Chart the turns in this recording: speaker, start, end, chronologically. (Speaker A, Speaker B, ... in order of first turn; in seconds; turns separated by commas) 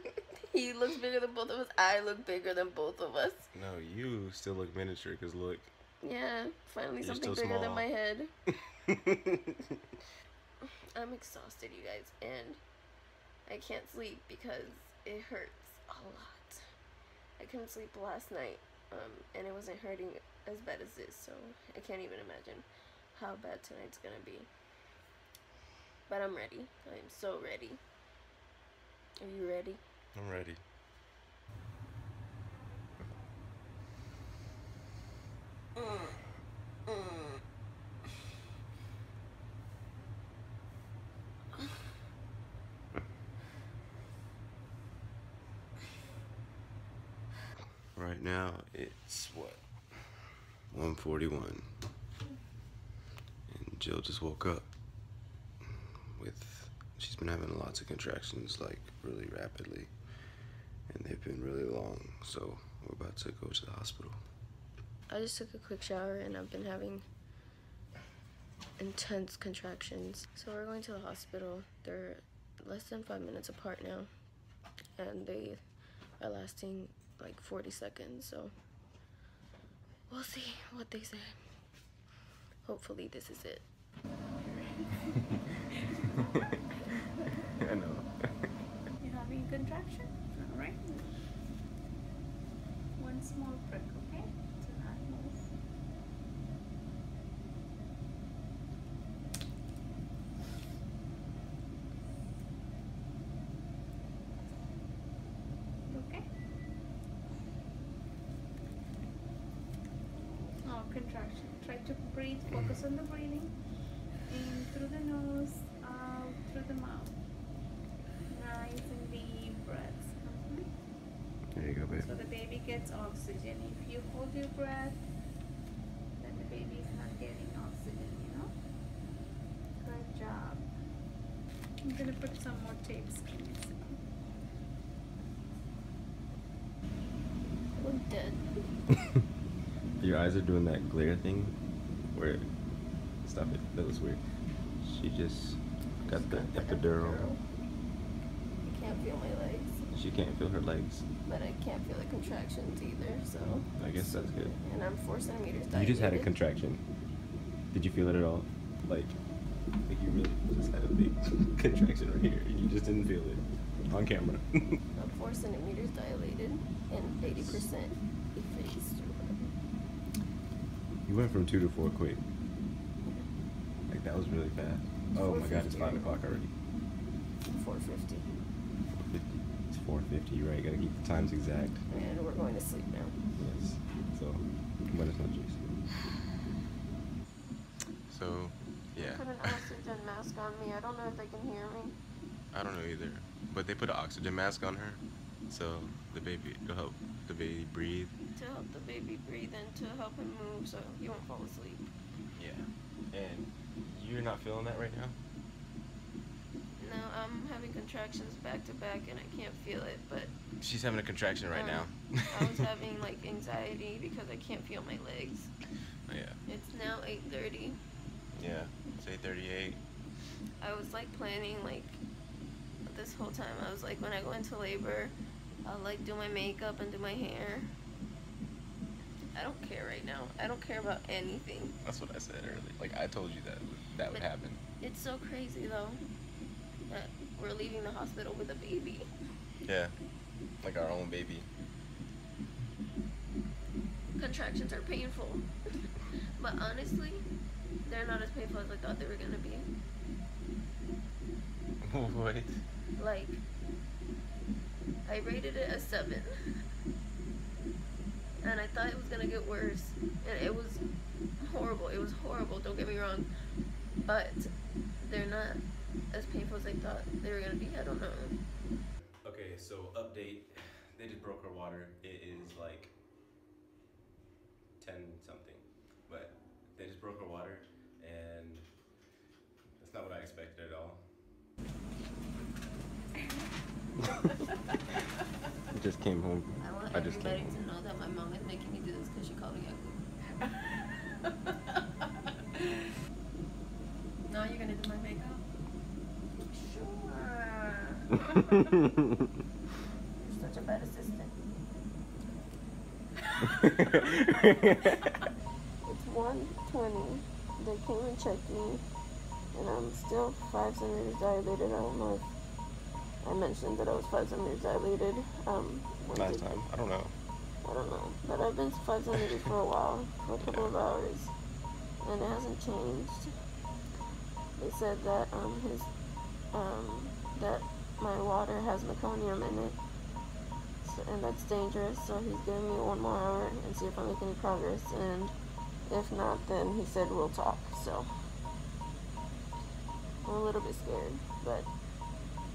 Speaker A: 0.5-3.5, Speaker B: 3.5-5.7, Speaker A: 6.0-8.3, Speaker B: 7.0-7.9, Speaker B: 8.9-9.7, Speaker A: 10.7-12.6, Speaker A: 13.5-16.6, Speaker A: 17.4-24.5, Speaker A: 26.1-27.8, Speaker A: 29.2-29.8, Speaker B: 30.1-30.6, Speaker A: 35.8-36.2, Speaker A: 36.9-37.4, Speaker B: 48.0-50.1, Speaker B: 50.7-51.7, Speaker B: 53.5-54.7, Speaker B: 56.2-59.9, Speaker B: 60.9-64.2, Speaker A: 65.1-67.0, Speaker A: 68.8-74.1, Speaker A: 75.0-75.6, Speaker A: 76.2-78.5, Speaker A: 80.1-81.4, Speaker A: 82.7-83.7, Speaker C: 84.4-85.4, Speaker B: 87.5-88.3, Speaker C: 89.0-91.1, Speaker C: 93.0-95.5, Speaker C: 105.9-106.3, Speaker C: 110.6-113.5, Speaker C: 114.3-117.1, Speaker C: 118.3-120.7, Speaker B: 121.5-122.1, Speaker C: 122.0-125.0, Speaker C: 126.2-128.5, Speaker C: 129.8-130.7, Speaker C: 131.8-134.0, Speaker A: 137.8-138.4, Speaker B: 140.0-141.5, Speaker B: 142.2-142.5, Speaker B: 143.2-144.2, Speaker B: 144.8-147.3, Speaker A: 146.0-147.4, Speaker A: 148.6-149.8, Speaker B: 149.9-151.1, Speaker A: 151.3-156.3, Speaker B: 153.7-154.6, Speaker B: 155.7-156.8, Speaker B: 157.7-159.2, Speaker B: 159.9-164.8, Speaker A: 165.0-169.5, Speaker B: 171.1-172.2, Speaker B: 173.9-176.5, Speaker A: 175.1-176.2, Speaker A: 177.5-178.3, Speaker B: 179.0-181.8, Speaker A: 181.9-183.2, Speaker B: 183.4-185.7, Speaker B: 188.1-189.6, Speaker A: 189.0-192.0, Speaker B: 192.5-198.1, Speaker A: 198.3-201.9, Speaker B: 202.3-205.2, Speaker A: 206.8-210.3, Speaker B: 210.6-212.6, Speaker A: 211.5-215.5, Speaker B: 216.1-216.4, Speaker A: 216.5-217.8, Speaker B: 218.3-219.8, Speaker A: 220.6-222.0, Speaker A: 222.9-225.1, Speaker A: 225.7-227.7, Speaker A: 229.2-231.8, Speaker B: 231.8-234.6, Speaker A: 234.8-236.0, Speaker A: 236.9-239.1, Speaker B: 239.6-239.9, Speaker B: 240.6-241.5, Speaker A: 244.2-245.5, Speaker A: 246.4-247.2, Speaker A: 247.8-249.7, Speaker B: 251.8-252.6, Speaker A: 253.0-253.4, Speaker A: 255.1-256.3, Speaker A: 258.4-260.8, Speaker A: 261.4-263.3, Speaker A: 264.1-268.4, Speaker B: 269.2-272.9, Speaker B: 274.8-278.7, Speaker B: 279.8-281.1, Speaker B: 285.7-287.6, Speaker A: 286.6-290.5, Speaker A: 292.6-292.8, Speaker A: 294.3-295.3, Speaker A: 296.5-298.5, Speaker A: 300.2-301.3, Speaker B: 303.6-305.2, Speaker A: 305.9-308.8, Speaker A: 309.5-312.2, Speaker A: 313.2-316.6, Speaker B: 316.1-317.1, Speaker A: 317.6-321.3, Speaker B: 320.4-320.7, Speaker A: 322.0-323.3, Speaker A: 324.6-325.9, Speaker A: 326.5-329.8, Speaker A: 330.8-335.3, Speaker A: 335.9-338.1, Speaker A: 340.3-341.7